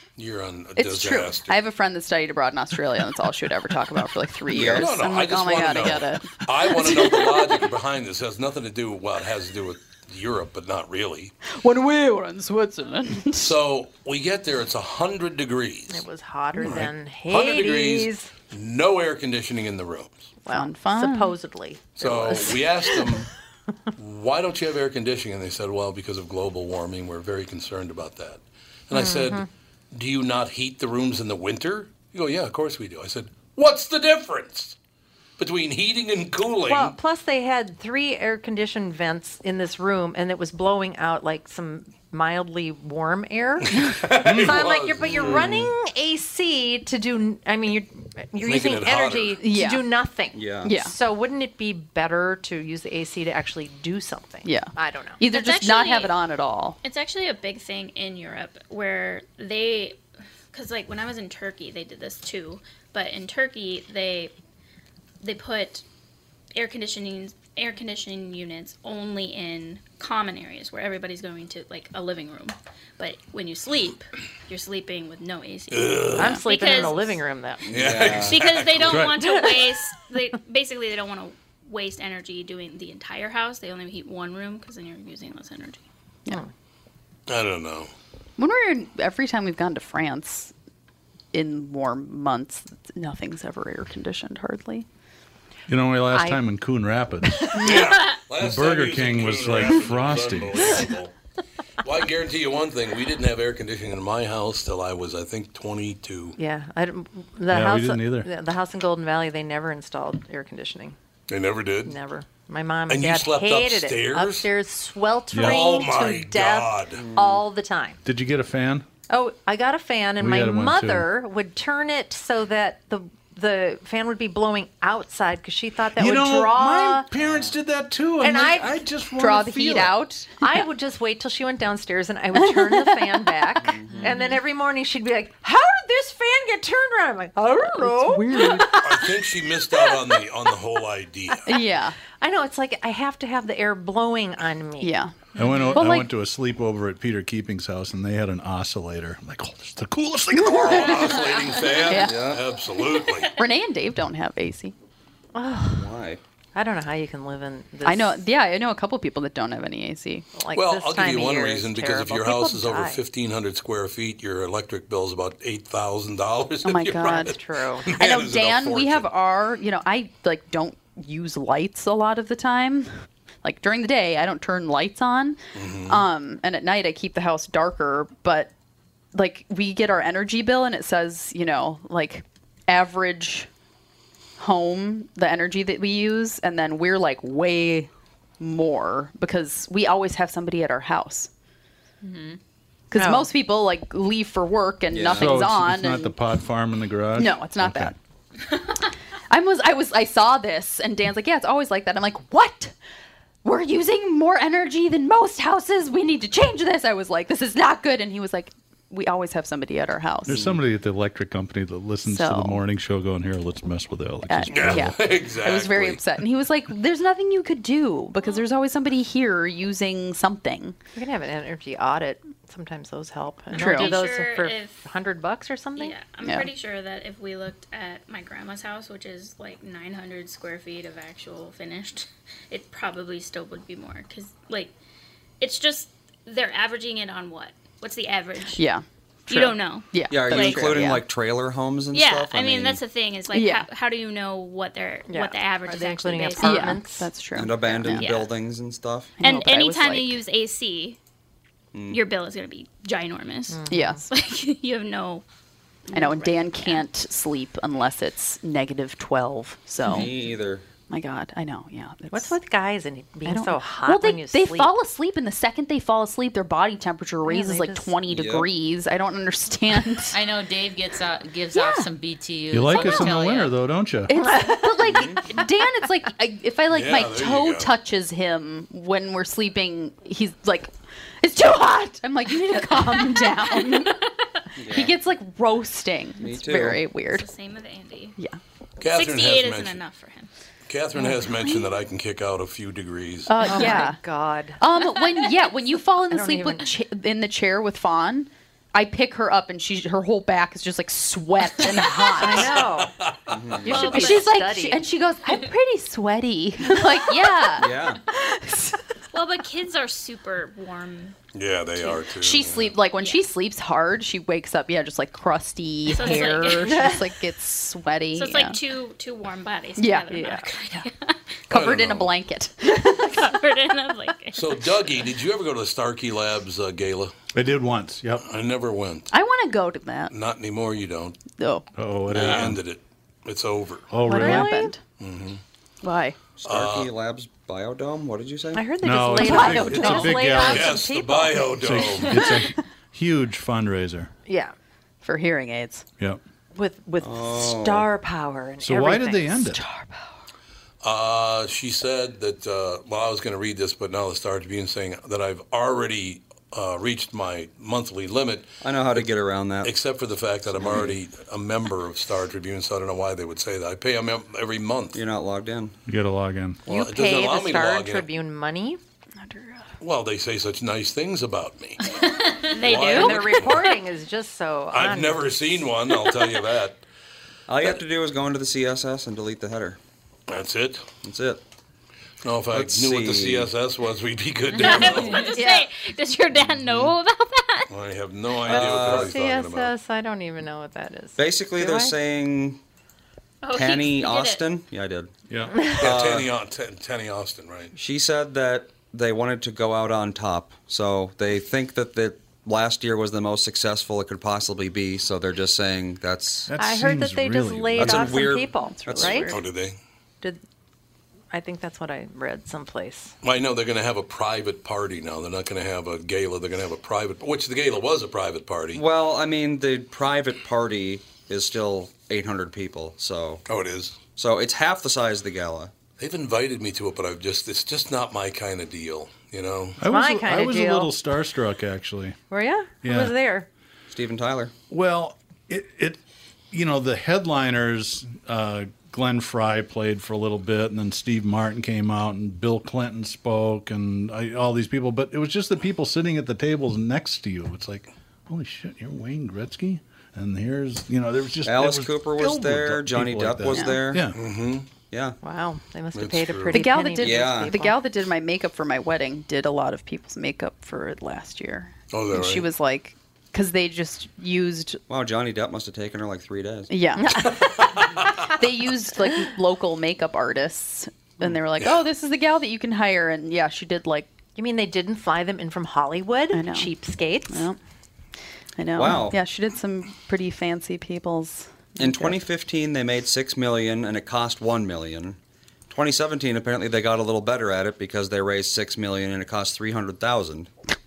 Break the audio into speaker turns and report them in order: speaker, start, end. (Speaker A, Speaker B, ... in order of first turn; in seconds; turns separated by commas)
Speaker A: 0.2-1.6, Speaker B: 0.8-6.3, Speaker C: 4.5-4.9, Speaker A: 4.7-11.3, Speaker B: 6.8-7.4, Speaker B: 11.4-13.6, Speaker A: 13.4-16.1, Speaker D: 15.9-18.3, Speaker A: 16.6-20.3, Speaker D: 20.4-23.2, Speaker B: 20.5-21.4, Speaker A: 22.0-23.3, Speaker A: 24.0-34.8, Speaker D: 28.9-29.5, Speaker A: 35.4-37.0, Speaker D: 36.7-55.2, Speaker A: 43.7-45.6, Speaker E: 44.2-44.7, Speaker C: 45.1-45.6, Speaker A: 48.4-49.4, Speaker B: 49.4-49.9, Speaker C: 50.3-50.7, Speaker B: 50.6-51.0, Speaker B: 54.5-56.8, Speaker F: 55.2-56.1, Speaker F: 56.8-60.0, Speaker F: 60.5-64.3, Speaker F: 65.2-65.8, Speaker F: 66.5-77.2, Speaker A: 75.7-76.4, Speaker D: 76.2-77.7, Speaker C: 77.7-78.7, Speaker A: 77.7-79.2, Speaker F: 78.2-85.8, Speaker E: 78.8-79.2, Speaker A: 87.3-87.9, Speaker B: 88.4-90.5, Speaker B: 91.3-94.9, Speaker E: 95.7-100.9, Speaker D: 96.1-96.4, Speaker A: 97.6-101.1, Speaker A: 101.8-106.4, Speaker D: 106.4-111.0, Speaker E: 107.5-108.3, Speaker A: 111.3-112.0, Speaker D: 111.8-118.0, Speaker A: 112.9-114.5, Speaker E: 115.3-115.7, Speaker A: 115.3-117.0, Speaker C: 116.9-117.5, Speaker E: 118.0-118.8, Speaker D: 119.1-127.1, Speaker E: 120.2-121.1, Speaker E: 126.0-130.0, Speaker C: 127.2-127.5, Speaker D: 128.2-128.8, Speaker B: 129.2-130.6, Speaker D: 130.4-140.3, Speaker B: 132.3-133.2, Speaker C: 133.6-134.2, Speaker G: 133.9-134.4, Speaker B: 137.6-138.7, Speaker A: 138.8-141.5, Speaker B: 141.5-142.0, Speaker D: 142.1-145.0, Speaker B: 144.8-145.1, Speaker E: 145.3-151.0, Speaker F: 145.4-145.8, Speaker B: 145.7-146.1, Speaker B: 150.3-151.0, Speaker A: 150.5-153.3, Speaker C: 151.8-152.4, Speaker B: 151.9-152.2, Speaker B: 153.4-154.7, Speaker D: 155.3-155.9, Speaker C: 155.7-156.2, Speaker D: 156.5-158.2, Speaker B: 157.8-160.2, Speaker D: 160.3-163.0, Speaker A: 160.5-169.1, Speaker B: 166.7-172.9, Speaker D: 167.1-167.9, Speaker B: 173.4-178.5, Speaker A: 175.5-176.1, Speaker B: 179.1-183.5, Speaker B: 184.4-187.9, Speaker B: 188.4-191.3, Speaker G: 192.0-192.4, Speaker B: 192.9-196.2, Speaker D: 192.9-193.3, Speaker C: 194.9-195.5, Speaker E: 195.1-197.9, Speaker B: 197.2-197.9, Speaker B: 199.3-202.7, Speaker B: 203.4-210.4, Speaker E: 210.3-215.0, Speaker B: 212.1-212.6, Speaker B: 214.3-220.8, Speaker A: 214.5-216.0, Speaker D: 220.9-226.0, Speaker B: 223.5-224.0, Speaker F: 223.6-224.8, Speaker F: 225.8-234.7, Speaker B: 226.2-226.5, Speaker F: 235.4-238.6, Speaker B: 238.6-241.0, Speaker F: 239.3-240.9, Speaker C: 240.1-242.8, Speaker F: 241.9-246.8, Speaker B: 243.3-243.7, Speaker D: 245.1-247.1, Speaker B: 246.4-248.1, Speaker C: 247.3-249.2, Speaker F: 248.0-248.3, Speaker B: 249.2-250.2, Speaker F: 249.2-251.0, Speaker C: 251.7-252.0, Speaker F: 251.9-255.2, Speaker D: 253.5-254.0, Speaker B: 253.7-254.0, Speaker F: 255.9-256.9, Speaker B: 255.9-260.1, Speaker C: 259.9-260.6, Speaker B: 260.9-262.4, Speaker D: 262.1-264.7, Speaker B: 263.2-270.1, Speaker D: 267.3-268.0, Speaker C: 268.1-268.5, Speaker G: 270.1-273.7, Speaker B: 271.5-271.9, Speaker E: 272.5-274.1, Speaker B: 272.7-273.1, Speaker B: 274.1-280.7, Speaker D: 274.2-275.0, Speaker C: 274.8-275.3, Speaker A: 276.7-277.7, Speaker B: 281.2-284.0, Speaker C: 284.6-285.0, Speaker B: 284.7-287.3, Speaker C: 286.2-286.8, Speaker F: 287.1-288.2, Speaker A: 288.8-289.8, Speaker F: 288.9-290.3, Speaker A: 290.7-293.6, Speaker B: 291.3-291.7, Speaker B: 293.3-294.0, Speaker D: 293.4-294.6, Speaker B: 294.6-302.6, Speaker D: 296.1-296.7, Speaker D: 302.2-303.0, Speaker A: 302.5-303.4, Speaker C: 303.3-303.9, Speaker D: 303.7-304.9, Speaker B: 303.7-308.8, Speaker F: 303.7-304.4, Speaker C: 307.6-308.0, Speaker F: 309.1-311.2, Speaker A: 311.3-312.8, Speaker B: 312.2-318.6, Speaker F: 313.0-313.2, Speaker F: 315.9-317.0, Speaker F: 318.1-321.2, Speaker B: 319.8-320.9, Speaker D: 320.1-320.5, Speaker B: 321.5-323.3, Speaker A: 321.5-322.1, Speaker F: 323.0-324.7, Speaker A: 324.3-327.1, Speaker E: 327.3-328.3, Speaker A: 328.3-329.1, Speaker B: 329.1-330.1, Speaker A: 330.1-331.2, Speaker B: 331.4-331.7, Speaker E: 331.8-332.6, Speaker A: 332.1-333.9, Speaker E: 333.9-334.6, Speaker B: 334.1-334.8, Speaker D: 334.1-334.8, Speaker A: 335.0-335.4, Speaker B: 335.8-336.2, Speaker C: 336.4-338.7, Speaker A: 336.4-336.9, Speaker D: 338.5-342.1, Speaker E: 338.8-340.8, Speaker B: 338.9-340.4, Speaker A: 340.4-342.2, Speaker E: 341.6-344.1, Speaker D: 344.3-344.6, Speaker B: 345.0-345.9, Speaker D: 346.5-349.4, Speaker C: 347.0-347.9, Speaker E: 348.6-349.6, Speaker B: 349.4-350.2, Speaker A: 350.8-359.1, Speaker C: 358.6-359.7, Speaker A: 359.6-365.0, Speaker C: 360.6-361.0, Speaker C: 364.9-365.8, Speaker E: 365.9-366.7, Speaker D: 366.7-368.8, Speaker A: 366.7-368.1, Speaker B: 369.2-369.7, Speaker A: 369.8-372.0, Speaker F: 372.4-373.8, Speaker A: 372.6-373.7, Speaker D: 372.7-375.6, Speaker A: 374.7-376.8, Speaker C: 377.5-379.8, Speaker A: 380.3-380.9, Speaker C: 381.0-381.4, Speaker A: 382.2-385.3, Speaker C: 382.5-383.5, Speaker F: 384.5-387.7, Speaker D: 385.4-385.7, Speaker C: 386.6-386.9, Speaker A: 387.7-389.7, Speaker C: 388.4-389.2, Speaker D: 388.5-392.0, Speaker C: 391.2-392.6, Speaker F: 393.4-394.5, Speaker C: 393.5-396.3, Speaker E: 395.3-395.7, Speaker D: 395.6-395.8, Speaker A: 395.7-397.7, Speaker C: 397.8-406.5, Speaker E: 406.5-408.2, Speaker D: 406.6-409.4, Speaker C: 407.8-409.3, Speaker B: 408.2-409.4, Speaker A: 409.3-409.8, Speaker D: 411.3-413.1, Speaker A: 413.2-418.8, Speaker C: 418.7-423.4, Speaker A: 423.5-424.0, Speaker C: 424.2-425.7, Speaker A: 426.0-429.8, Speaker E: 429.8-432.2, Speaker D: 429.9-430.9, Speaker D: 432.3-433.5, Speaker E: 432.8-433.1, Speaker C: 433.9-434.5, Speaker E: 434.7-436.0, Speaker E: 436.5-454.2, Speaker C: 451.4-454.1, Speaker B: 453.5-453.8, Speaker A: 454.1-454.7, Speaker C: 454.9-455.2, Speaker D: 455.2-457.8, Speaker A: 455.9-456.6, Speaker B: 456.5-464.8, Speaker C: 457.0-457.5, Speaker A: 461.9-462.5, Speaker C: 464.9-466.7, Speaker B: 466.7-467.5, Speaker D: 467.0-467.3, Speaker A: 467.4-468.1, Speaker B: 468.3-474.1, Speaker D: 474.4-477.5, Speaker B: 476.3-476.7, Speaker B: 477.3-477.6, Speaker B: 478.6-482.2, Speaker C: 478.8-479.2, Speaker C: 481.8-485.2, Speaker C: 485.7-490.5